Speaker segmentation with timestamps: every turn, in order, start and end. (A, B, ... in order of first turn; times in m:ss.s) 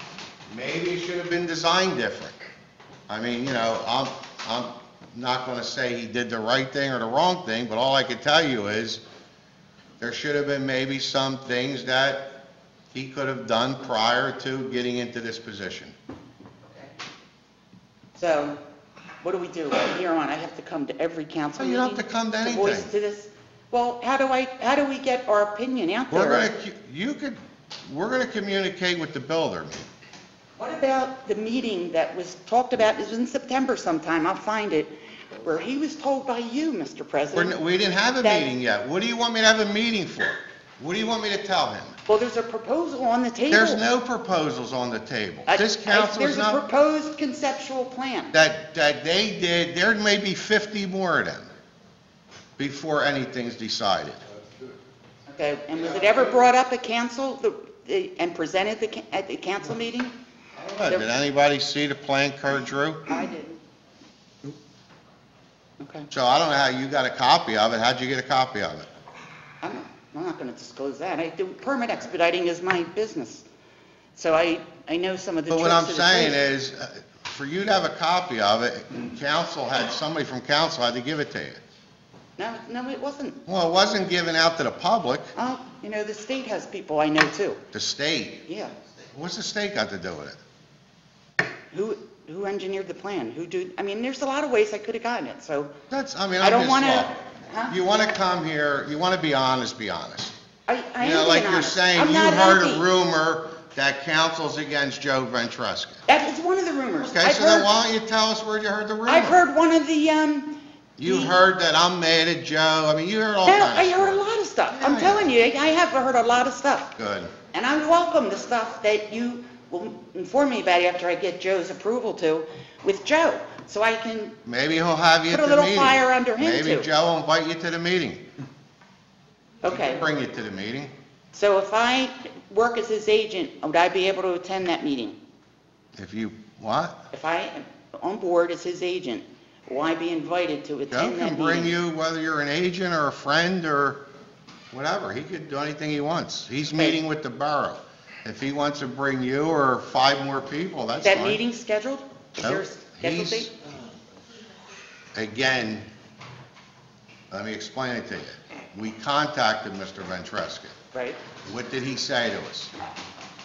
0:00.5-0:02.4 A
0:03.1-0:09.0 A
0:10.0-0:15.9 A
0:16.7-0:16.9 B
0:18.1-0:18.6 B
0:19.2-0:26.5 B
0:21.5-0:22.9 A
0:26.1-0:29.9 A
0:30.6-0:37.6 B
0:37.3-0:41.9 A
0:38.2-0:38.5 B
0:42.1-0:43.8 B
0:43.5-0:46.6 A
0:45.5-0:48.4 B
0:48.3-0:51.5 A
0:52.6-0:54.2 A
0:55.3-1:00.1 B
1:00.5-1:03.1 A
1:03.1-1:03.6 B
1:05.8-1:06.1 B
1:06.1-1:08.9 A
1:09.6-1:13.4 B
1:14.2-1:16.4 B
1:15.5-1:21.6 A
1:22.4-1:23.4 B
1:23.4-1:25.3 A
1:25.3-1:27.6 B
1:27.7-1:28.4 A
1:28.4-1:28.7 B
1:29.1-1:30.4 A
1:31.7-1:35.8 B
1:35.9-1:37.1 A
1:36.4-1:37.8 B
1:37.7-1:40.3 A
1:40.7-1:42.9 B
1:41.0-1:46.0 A
1:46.1-1:47.7 B
1:47.0-1:49.4 A
1:49.0-1:51.4 B
1:51.0-1:55.3 A
1:53.4-1:56.9 B
1:57.0-1:57.3 A
1:57.5-2:04.4 B
2:04.4-2:08.2 A
2:05.3-2:06.9 B
2:09.6-2:10.0 B
2:09.6-2:10.9 A
2:11.3-2:15.2 B
2:16.0-2:17.0 A
2:17.1-2:21.7 B
2:20.9-2:24.0 A
2:24.7-2:31.4 A
2:26.7-2:27.0 B
2:31.0-2:33.5 B
2:32.4-2:33.5 A
2:35.1-2:35.9 A
2:37.3-2:40.8 A
2:40.9-2:41.2 B
2:41.4-2:42.7 A